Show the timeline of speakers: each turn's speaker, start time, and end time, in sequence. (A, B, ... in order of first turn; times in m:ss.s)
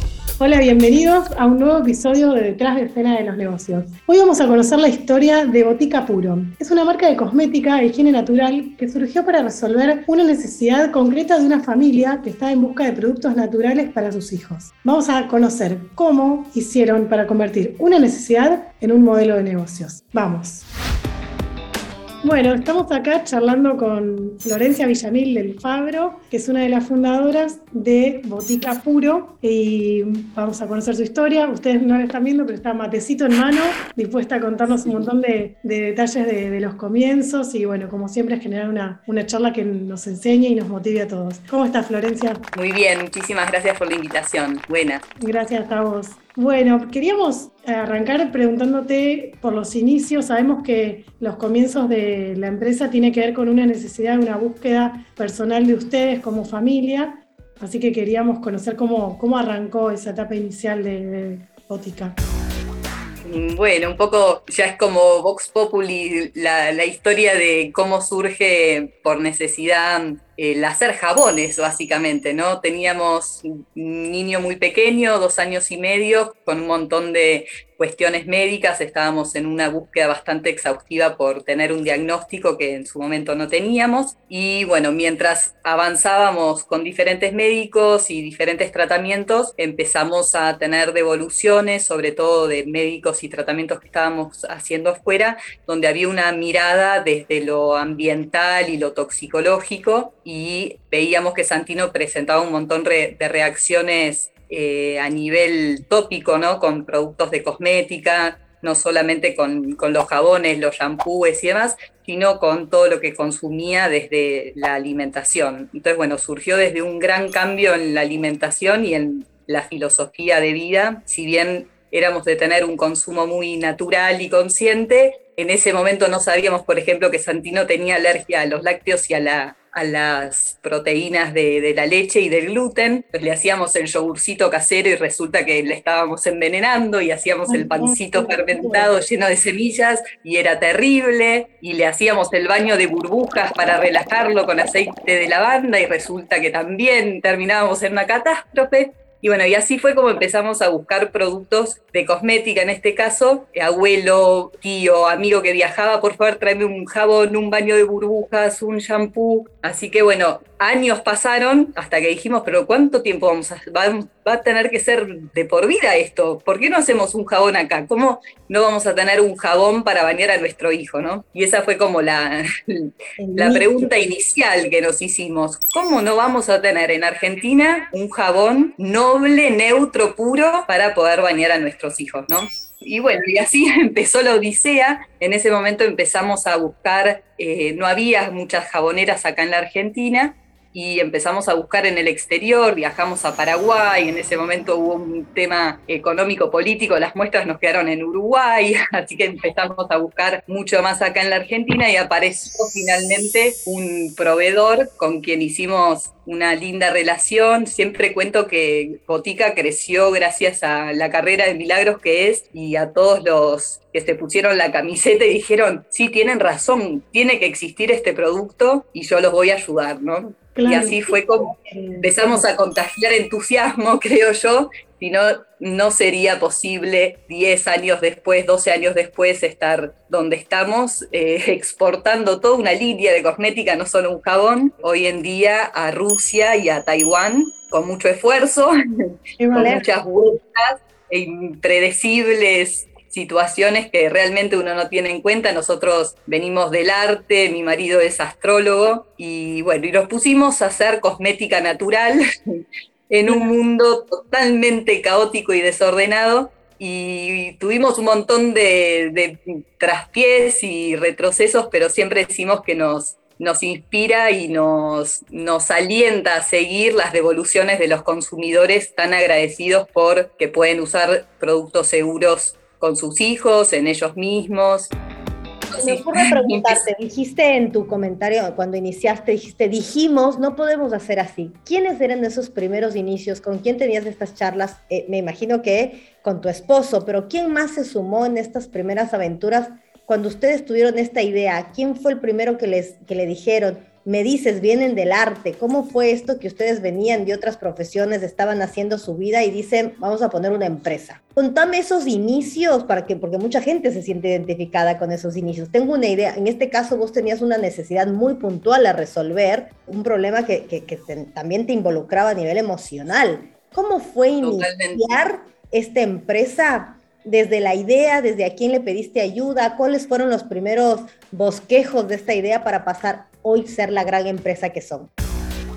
0:00.4-0:20.6 A
0:22.2-0:42.4 A
0:42.5-0:45.0 B
0:45.2-1:02.2 A
1:03.2-3:58.7 B
2:17.5-2:18.9 A
2:53.2-2:53.9 C
3:40.5-3:42.4 A
3:59.4-3:59.8 A
3:59.5-4:34.9 B
3:59.6-3:59.9 C
4:13.3-4:13.5 A
4:35.7-4:36.8 B
4:35.8-5:25.1 C
5:14.4-5:15.0 B